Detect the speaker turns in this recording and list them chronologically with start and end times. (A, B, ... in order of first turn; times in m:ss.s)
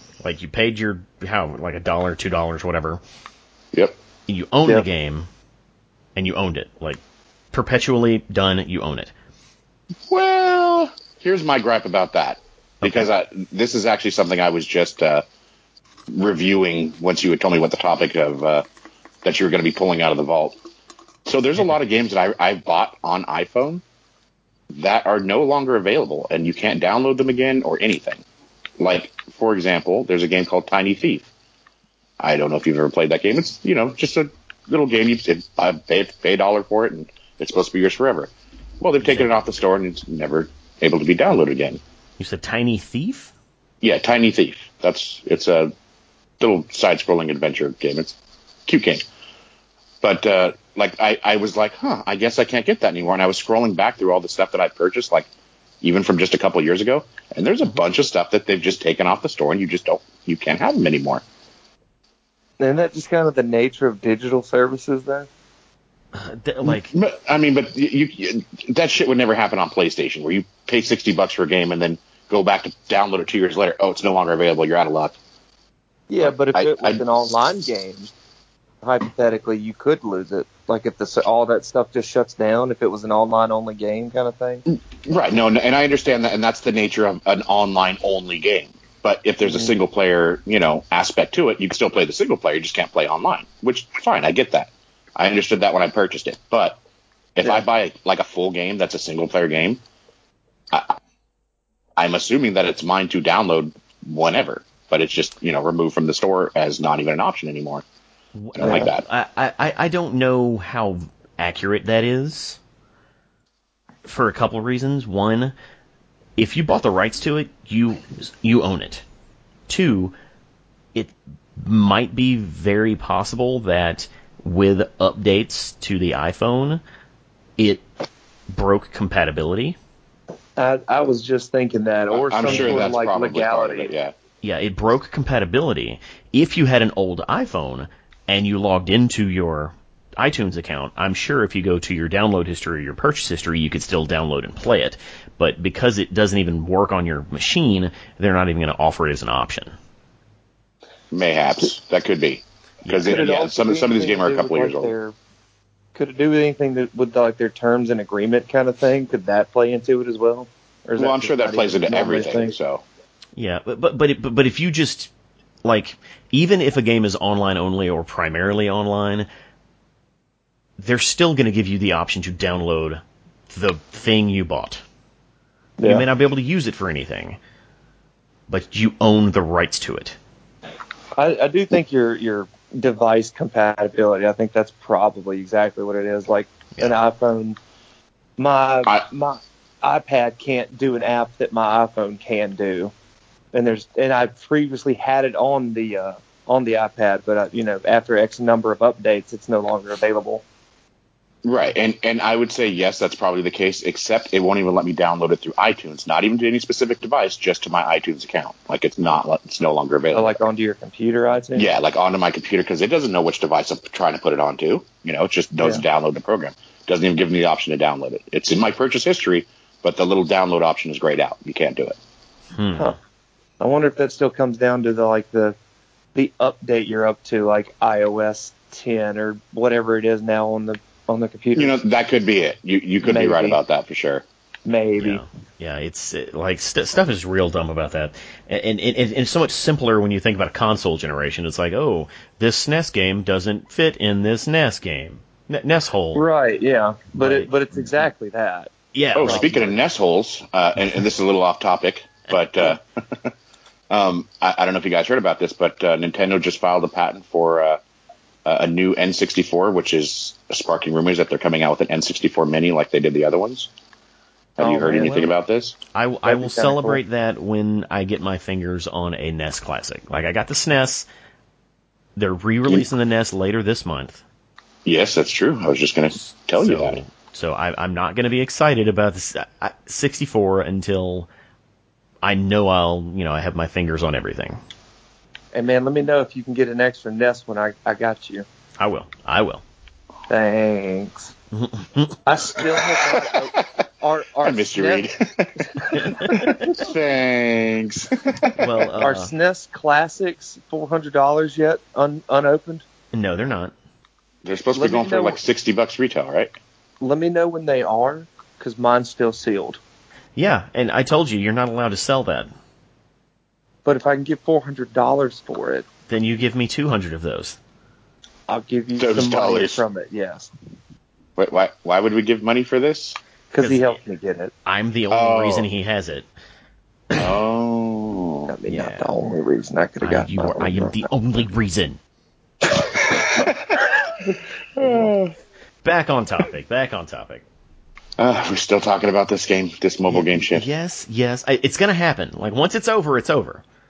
0:00.2-0:03.0 A
0:04.3-0:05.3 A
0:06.1-0:07.0 A
0:07.5-0:09.1 A
0:10.1-0:15.2 B
0:12.8-0:13.1 A
0:16.1-0:18.6 B
0:19.2-0:20.6 B
0:21.2-0:23.8 B
0:24.7-0:28.2 B
0:28.8-0:31.3 B
0:32.2-0:41.8 B
0:39.0-0:39.4 A
0:42.2-0:43.3 A
0:43.8-0:45.7 B
0:46.4-0:49.0 B
0:50.0-0:55.3 B
0:55.8-1:01.2 B
1:02.6-1:05.3 C
1:06.1-1:06.9 A
1:06.6-1:15.2 B
1:16.1-1:18.1 C
1:16.2-1:17.0 B
1:18.8-1:24.6 C
1:24.7-1:36.8 B
1:37.4-1:39.8 B
1:40.7-1:41.0 B
1:42.0-1:47.8 B
1:48.4-1:52.6 A
1:48.5-1:49.0 B
1:54.0-1:55.5 A
1:56.4-1:59.0 A
1:59.7-2:00.1 A
2:00.9-2:06.8 A
2:07.6-2:07.8 A
2:08.5-2:09.8 A
2:10.6-2:13.9 C
2:12.1-2:14.1 B
2:12.5-2:12.9 A
2:14.4-2:29.7 A
2:31.1-2:34.9 B
2:32.8-2:33.2 A
2:33.0-2:35.2 C
2:35.9-2:42.6 C
2:41.0-2:42.8 B
2:43.4-2:45.1 A
2:45.6-2:49.3 A
2:50.8-2:54.8 A
2:55.8-2:56.0 C
2:55.8-2:57.4 A
2:58.5-3:00.2 A
3:01.2-3:07.6 C
3:08.4-3:12.9 C
3:13.5-3:20.4 C
3:21.4-3:30.4 B
3:30.1-3:31.7 C
3:31.6-3:42.0 B
3:42.6-3:42.9 A
3:43.6-3:45.6 C
3:46.1-3:51.7 C
3:51.5-3:54.2 B
3:53.0-3:53.6 C
3:54.6-3:55.2 C
3:55.0-4:06.2 A
4:06.1-4:08.7 C
4:07.2-4:07.5 A
4:08.9-4:09.8 A
4:09.1-4:13.3 B
4:09.2-4:09.5 C
4:13.9-4:17.8 B
4:18.4-4:23.7 B
4:24.6-4:25.8 B
4:24.6-4:25.3 C
4:24.8-4:25.3 A
4:25.9-4:31.1 A
4:26.2-4:27.0 C
4:32.2-4:34.2 A
4:34.8-4:37.0 B
4:36.5-4:41.3 A
4:42.2-4:44.6 A
4:45.5-4:48.4 C
4:48.8-4:49.6 A
4:50.3-4:51.3 C
4:51.5-4:52.2 A
4:52.2-4:55.1 C
4:53.0-4:53.6 B
4:54.4-4:58.9 B
4:55.8-4:56.7 C
4:56.0-4:56.5 A
4:58.5-4:59.3 A
4:59.0-5:02.8 C
5:03.1-5:03.7 A
5:04.4-5:06.5 B
5:04.7-5:05.4 C
5:07.0-5:09.8 C
5:10.4-5:12.5 A
5:13.8-5:15.9 C
5:16.1-5:17.6 A
5:18.5-5:20.5 C
5:19.0-5:19.8 B
5:21.4-5:23.2 B
5:23.5-5:24.5 C
5:23.6-5:24.0 A
5:24.6-5:26.3 A
5:25.1-5:25.7 B
5:27.1-5:28.5 B
5:28.5-5:31.0 C
5:28.7-5:29.1 A
5:30.0-5:32.0 A
5:32.9-5:34.0 B
5:34.2-5:35.1 C
5:34.8-5:35.3 B
5:35.8-5:37.4 A
5:38.2-5:40.6 B
5:40.1-5:43.6 A